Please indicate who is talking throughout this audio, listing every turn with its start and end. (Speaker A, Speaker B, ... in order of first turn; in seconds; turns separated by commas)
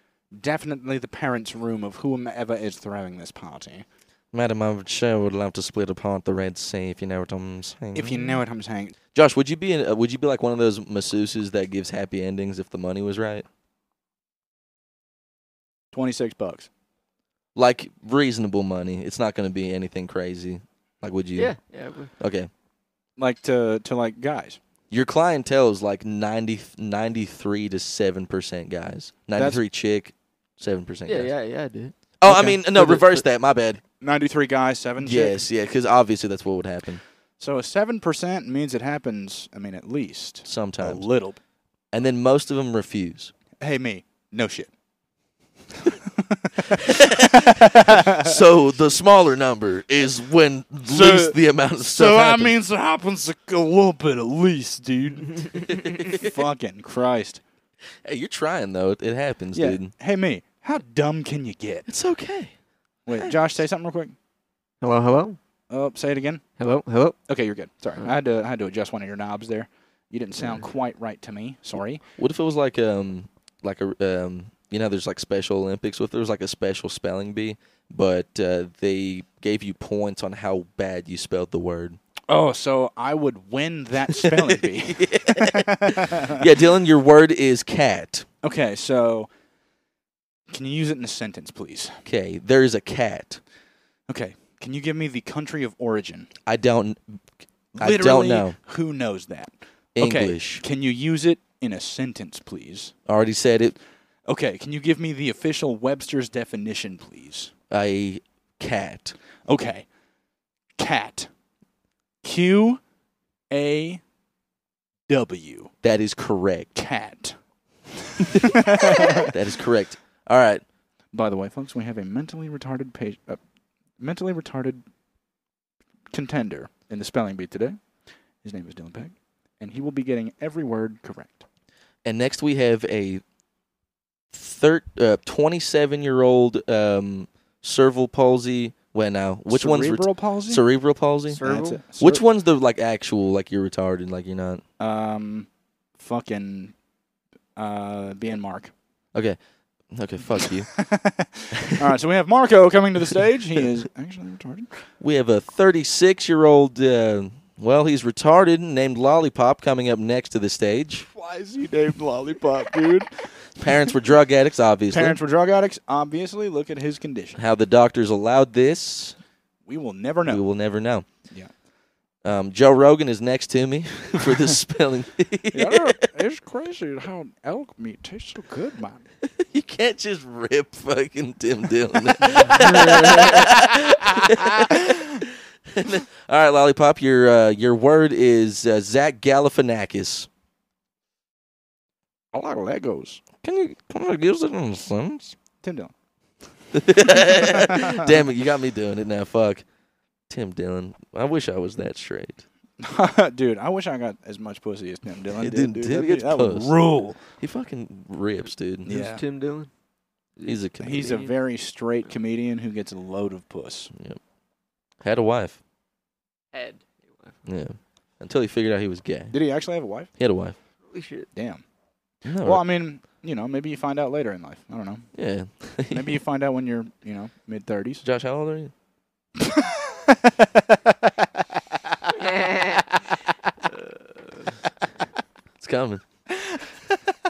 Speaker A: 0.3-3.9, Speaker B: 4.3-8.3, Speaker A: 7.9-8.9, Speaker B: 9.1-13.5, Speaker A: 15.9-16.7, Speaker B: 17.6-21.5, Speaker C: 21.4-22.1, Speaker B: 22.2-22.5, Speaker A: 23.2-24.6, Speaker B: 24.9-31.3, Speaker A: 29.4-29.6, Speaker C: 31.1-32.0, Speaker B: 32.2-33.8, Speaker A: 32.2-33.1, Speaker A: 34.0-35.4, Speaker B: 35.0-37.0, Speaker A: 37.4-41.4, Speaker B: 40.5-41.0, Speaker B: 41.9-43.3, Speaker A: 43.6-44.7, Speaker A: 45.8-48.4, Speaker B: 46.7-52.5, Speaker A: 50.9-57.4, Speaker B: 55.7-56.3, Speaker B: 58.0-59.9, Speaker A: 59.5-61.9, Speaker B: 61.9-62.5, Speaker A: 63.1-64.2, Speaker B: 63.1-63.4, Speaker C: 64.8-65.4, Speaker A: 65.7-66.4, Speaker C: 66.6-67.2, Speaker A: 67.3-72.0, Speaker B: 72.2-82.0, Speaker A: 82.3-86.4, Speaker B: 84.1-88.3, Speaker A: 88.4-89.3, Speaker A: 90.5-92.0, Speaker B: 92.0-93.4, Speaker A: 94.1-96.3, Speaker B: 96.5-97.0, Speaker B: 97.8-98.6, Speaker A: 97.8-102.9, Speaker B: 100.0-100.6, Speaker B: 103.1-103.8, Speaker A: 104.3-107.5, Speaker B: 107.7-109.2, Speaker A: 109.5-109.9, Speaker A: 110.8-111.3, Speaker A: 112.2-112.8, Speaker A: 113.5-114.0, Speaker A: 115.1-115.7, Speaker B: 115.8-116.7, Speaker A: 116.8-117.4, Speaker A: 118.0-119.3, Speaker B: 118.3-120.6, Speaker A: 121.1-123.4, Speaker A: 124.0-124.8, Speaker A: 126.1-127.8, Speaker A: 128.4-131.4, Speaker B: 132.1-133.2, Speaker B: 134.3-144.6, Speaker A: 139.5-140.6, Speaker A: 141.3-142.2, Speaker C: 141.4-141.8, Speaker A: 144.8-146.8, Speaker A: 147.6-148.7, Speaker B: 149.9-150.7, Speaker A: 150.3-154.7, Speaker B: 151.5-151.9, Speaker B: 155.0-161.1, Speaker A: 161.1-163.3, Speaker B: 163.6-165.2, Speaker A: 164.9-167.4, Speaker B: 167.4-169.2, Speaker A: 169.7-170.4, Speaker B: 170.3-171.1, Speaker B: 172.2-176.0, Speaker A: 175.5-179.1, Speaker B: 179.2-190.3, Speaker A: 182.2-184.8, Speaker C: 182.4-183.4, Speaker A: 192.3-193.2, Speaker B: 193.4-195.4, Speaker A: 195.6-195.9, Speaker B: 196.7-199.7, Speaker A: 197.0-198.2, Speaker B: 200.3-202.4, Speaker A: 202.8-207.2, Speaker B: 205.4-206.8, Speaker B: 207.3-208.9, Speaker C: 208.8-209.7, Speaker A: 208.9-209.2, Speaker C: 210.4-211.3, Speaker B: 210.4-211.2, Speaker A: 210.8-213.9, Speaker B: 213.9-214.2, Speaker B: 215.0-215.6, Speaker C: 216.5-217.4, Speaker B: 217.5-219.3, Speaker A: 219.3-220.1, Speaker B: 220.2-220.6, Speaker C: 220.8-221.3, Speaker A: 221.3-221.6, Speaker B: 222.2-222.7, Speaker A: 222.4-225.1, Speaker B: 225.2-226.2, Speaker A: 225.9-228.0, Speaker B: 228.0-228.7, Speaker A: 229.4-231.1, Speaker C: 232.2-232.9, Speaker B: 235.6-236.0